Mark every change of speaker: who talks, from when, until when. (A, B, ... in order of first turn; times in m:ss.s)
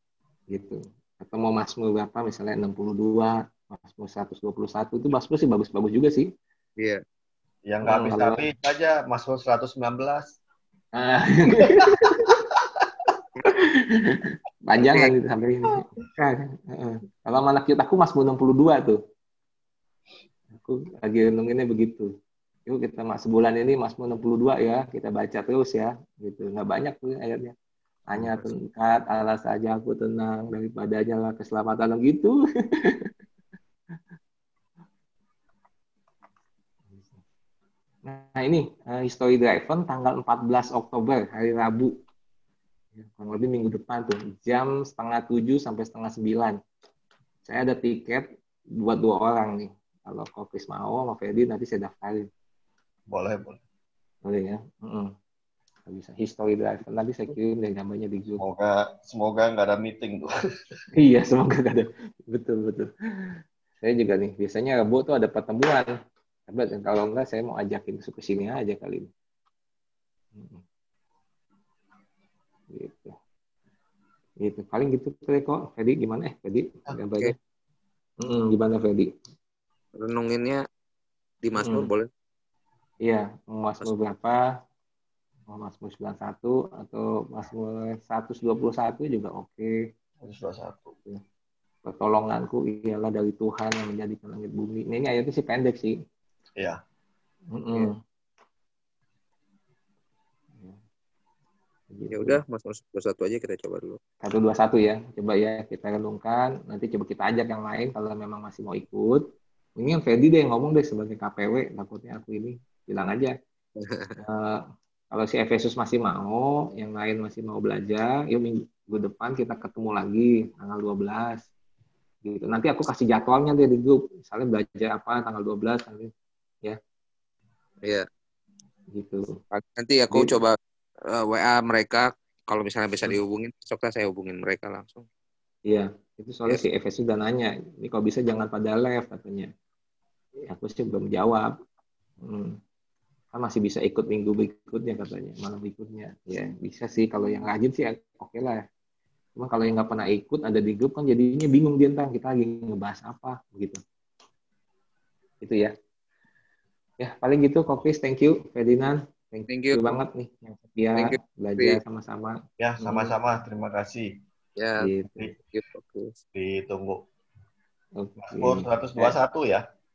0:00.5-0:06.3 A
0:07.7-0:10.3 B
0:07.8-0:08.4 A
0:11.0-0:12.4 A
0:11.9-0:12.4 B
0:13.4-0:19.0 A
0:14.8-0:15.1 C
0:20.6-0:22.1 A
0:22.7-0:27.6 A
0:28.1-0:33.1 A
0:28.2-0:28.5 C
0:36.9-0:37.2 A
0:38.0-0:42.0 A
0:43.0-0:46.6 A
0:47.4-0:48.3 A
0:48.8-0:52.3 A
0:53.1-0:53.6 B
0:54.2-0:55.1 A
0:55.9-0:58.4 A
0:58.4-1:00.3 B
1:01.0-1:05.9 A
1:06.5-1:09.1 A
1:10.4-1:10.6 A
1:12.7-1:13.1 A
1:14.4-1:17.4 A
1:18.2-1:19.1 A
1:20.0-1:20.6 C
1:21.4-1:22.1 C
1:21.6-1:21.9 A
1:23.0-1:24.5 A
1:25.5-1:29.8 A
1:30.2-1:31.0 B
1:31.9-1:36.0 A
1:37.5-1:37.9 A
1:41.9-1:42.4 A
1:42.1-1:44.0 C
1:44.2-1:49.2 A
1:49.8-1:53.3 A
1:53.8-1:54.2 C
1:54.2-1:54.6 A
1:55.1-2:01.5 A
2:02.2-2:06.1 A
2:08.9-2:09.4 A
2:09.5-2:10.6 C
2:10.1-2:10.4 A
2:11.1-2:15.1 C
2:15.7-2:19.5 A
2:20.5-2:21.5 A
2:22.2-2:22.6 A
2:23.3-2:28.6 A
2:29.4-2:33.8 A
2:35.4-2:35.7 A
2:37.0-2:43.1 A
2:39.5-2:40.0 C
2:41.0-2:41.8 C
2:42.6-2:44.1 B
2:44.6-2:44.9 C
2:44.8-2:45.6 A
2:45.6-2:46.1 C
2:46.4-2:47.0 B
2:48.0-2:49.1 A
2:48.3-2:49.6 B